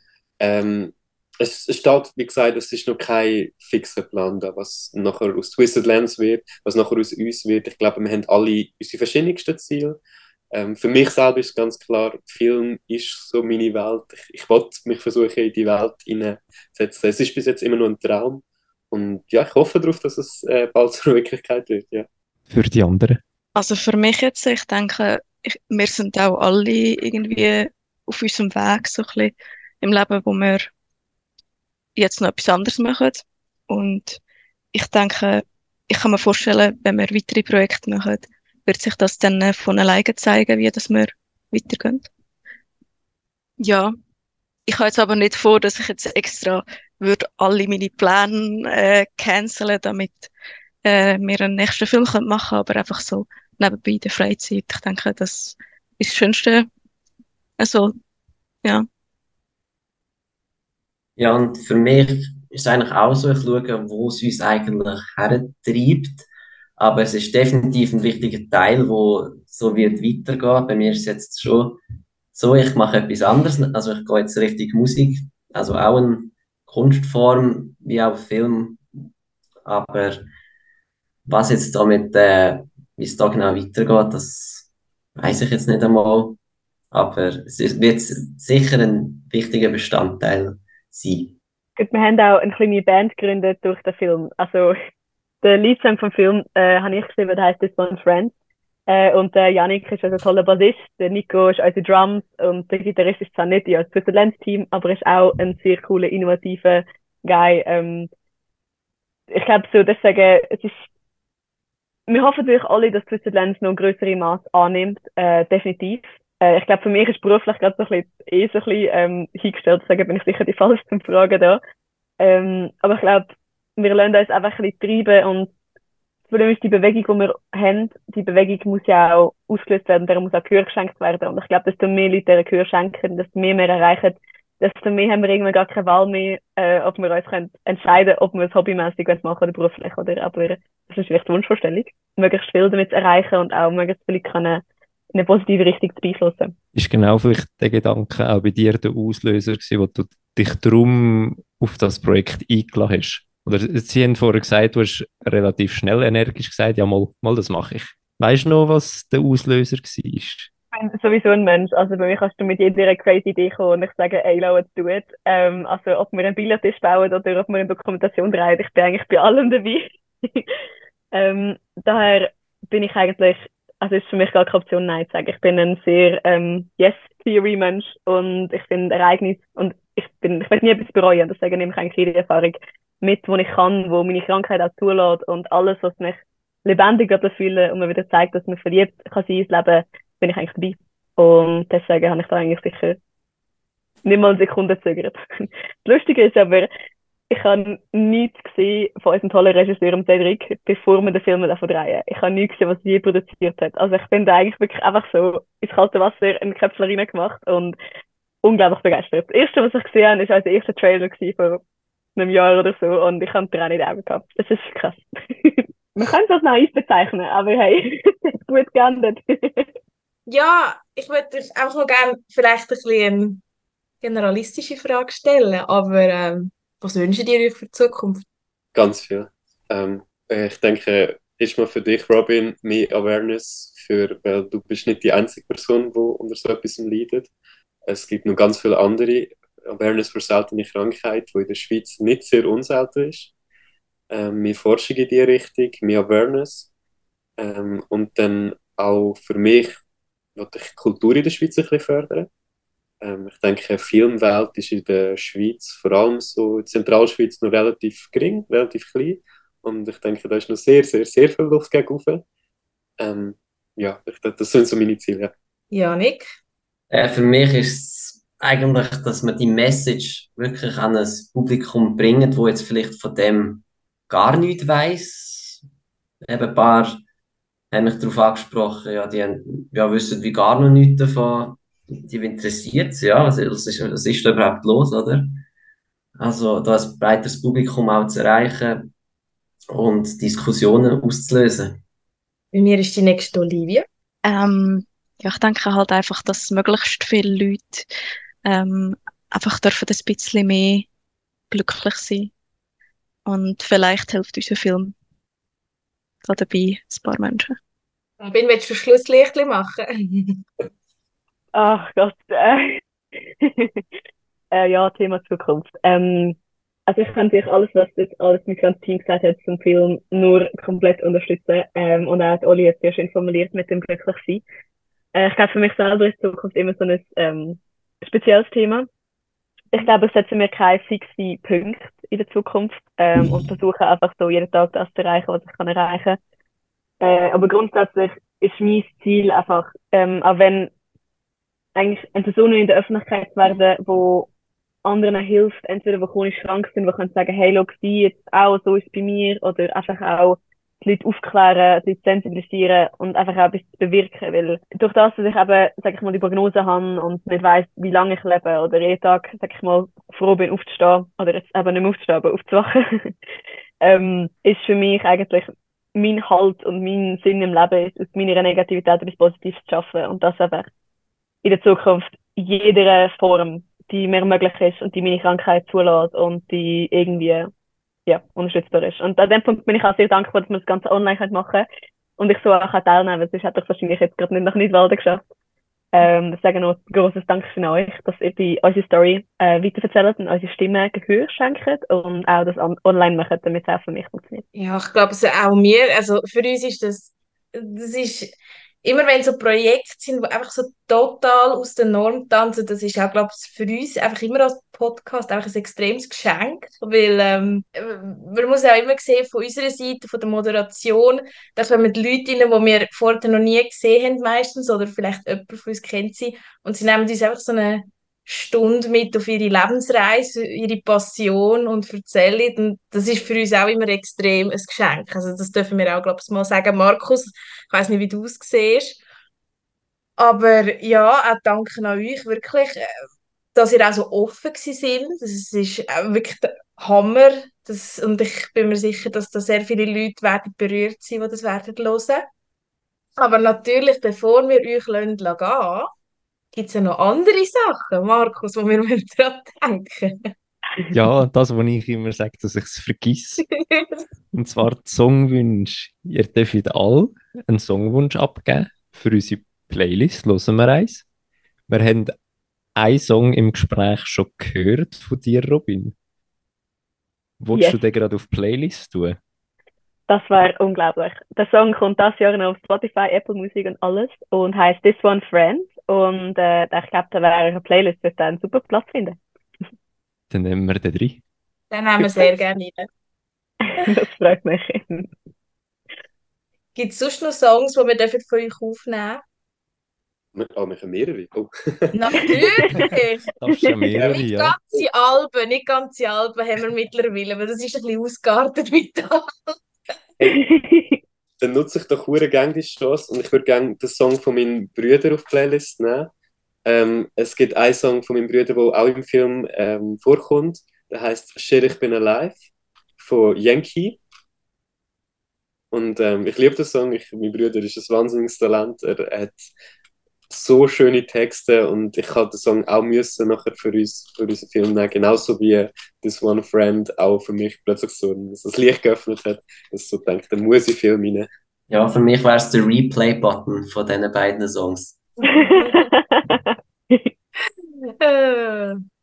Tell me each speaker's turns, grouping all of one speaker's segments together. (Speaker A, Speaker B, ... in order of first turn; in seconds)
Speaker A: 0.4-10.0, 10.5-22.1, 228.8-237.3, 237.9-243.3, 244.1-246.7, 247.4-249.8, 250.4-252.3, 253.0-262.2, 263.0-265.3, 490.4-492.4, 501.4-506.1, 506.7-512.4, 513.0-514.0, 515.7-519.5, 520.3-531.3
Speaker B: 22.5-23.2, 146.8-160.5, 450.9-453.4, 454.3-461.0, 461.7-462.1, 462.8-465.9, 467.4-469.2, 480.3-481.2, 493.4-494.6
Speaker C: 23.6-30.7, 32.0-34.2, 34.7-42.0, 43.6-44.0, 44.7-50.3, 50.9-56.7, 57.6-57.9, 294.3-297.9, 298.5-300.9, 301.5-302.3, 303.3-304.9, 306.2-307.6
Speaker D: 61.2-66.3, 66.8-71.8, 72.3-78.8, 79.7-80.3, 81.3-86.4, 86.9-91.4, 266.9-275.6, 276.3-277.0, 277.7-285.4, 286.2-288.9, 289.7-291.8, 531.7-535.0
Speaker E: 91.8-94.7, 95.4-98.3, 98.9-108.1, 109.3-110.8, 112.1-121.6, 122.2-125.5, 126.3-146.6, 160.7-170.4, 171.1-193.0, 194.1-196.7, 197.3-207.8, 208.4-211.6, 212.2-219.7, 311.5-312.8, 313.4-313.8, 314.5-324.4, 325.1-328.9, 329.7-336.2, 337.0-340.7, 341.8-344.3, 344.9-363.1, 363.8-370.7, 371.4-377.5, 378.1-381.7, 382.2-385.2, 385.9-394.4, 467.5-467.8, 470.1-479.2, 483.7-485.1, 493.5-493.8, 500.2-501.0, 535.3-537.1
Speaker F: 220.3-223.4, 224.0-228.2, 265.7-266.3, 292.5-293.9, 308.2-310.4, 394.6-429.0, 430.2-432.8, 433.6-442.3, 443.2-445.9, 446.5-450.3, 453.5-454.0, 481.7-482.9, 486.8-489.2, 491.9-493.3, 494.0-499.6, 535.2-535.8, 537.8-538.8